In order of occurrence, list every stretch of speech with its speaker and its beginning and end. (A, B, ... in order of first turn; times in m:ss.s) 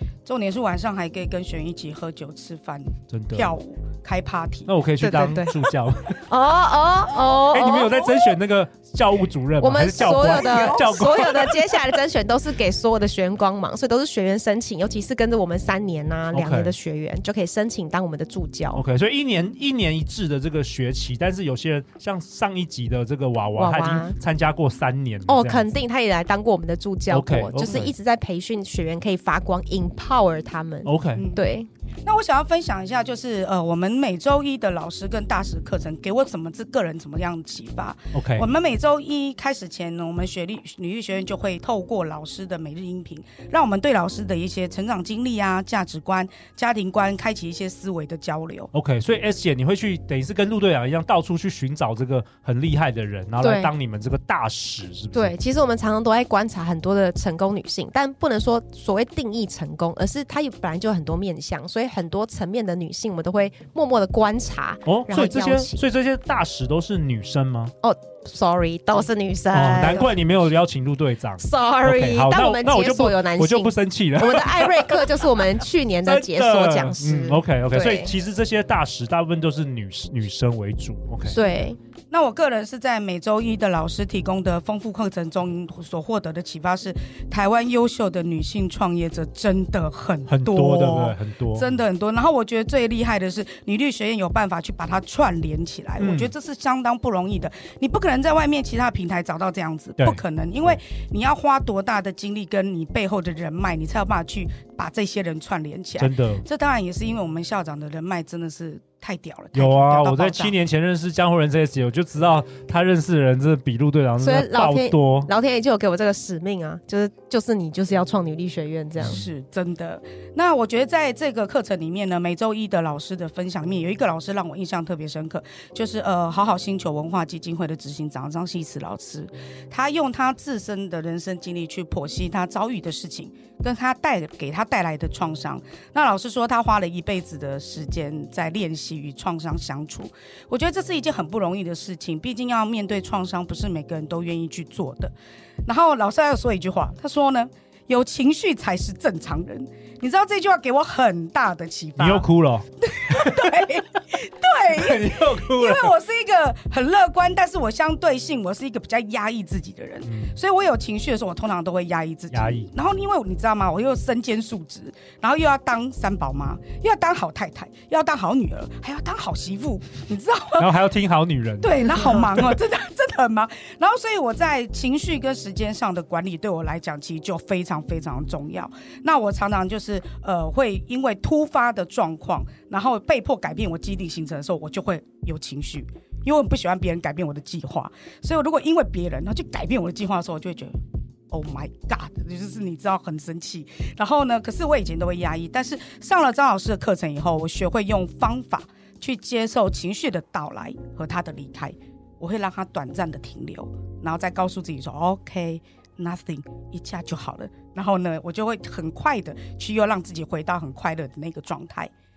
0:00.2-0:04.7 A
0:03.1-0:03.5 B
0:04.7-0:06.2 B
0:05.0-0:05.5 C
0:06.3-0:08.3 C
0:07.4-0:11.6 B
0:09.6-0:18.8 C
0:10.0-0:11.5 A
0:16.3-0:16.7 B
0:18.7-0:25.7 B
0:23.6-0:24.2 C
0:25.3-0:31.7 C
0:27.1-0:27.9 B
0:30.8-0:31.2 B
0:31.2-0:31.4 A
0:32.0-0:48.7 A
0:38.1-0:38.5 B
0:48.7-0:55.4 B
0:53.4-0:53.7 C
0:55.1-1:05.8 C
1:04.8-1:07.7 B
1:07.8-1:10.1 C
1:09.5-1:15.1 B
1:11.4-1:18.1 C
1:16.0-1:21.4 B
1:21.3-1:21.8 C
1:22.1-1:50.5 A
1:30.3-1:31.7 B
1:36.0-1:36.3 B
1:40.0-1:40.8 B
1:46.0-1:46.4 B
1:49.5-1:55.3 B
1:54.2-1:59.2 C
1:59.0-2:25.1 A
2:25.6-2:32.3 A
2:32.0-2:33.7 B
2:32.8-2:50.8 A
2:34.7-2:35.9 B
2:40.0-2:40.3 B
2:42.3-2:42.7 B
2:50.6-2:52.4 B
2:51.6-3:10.8 A
3:11.3-3:31.9 A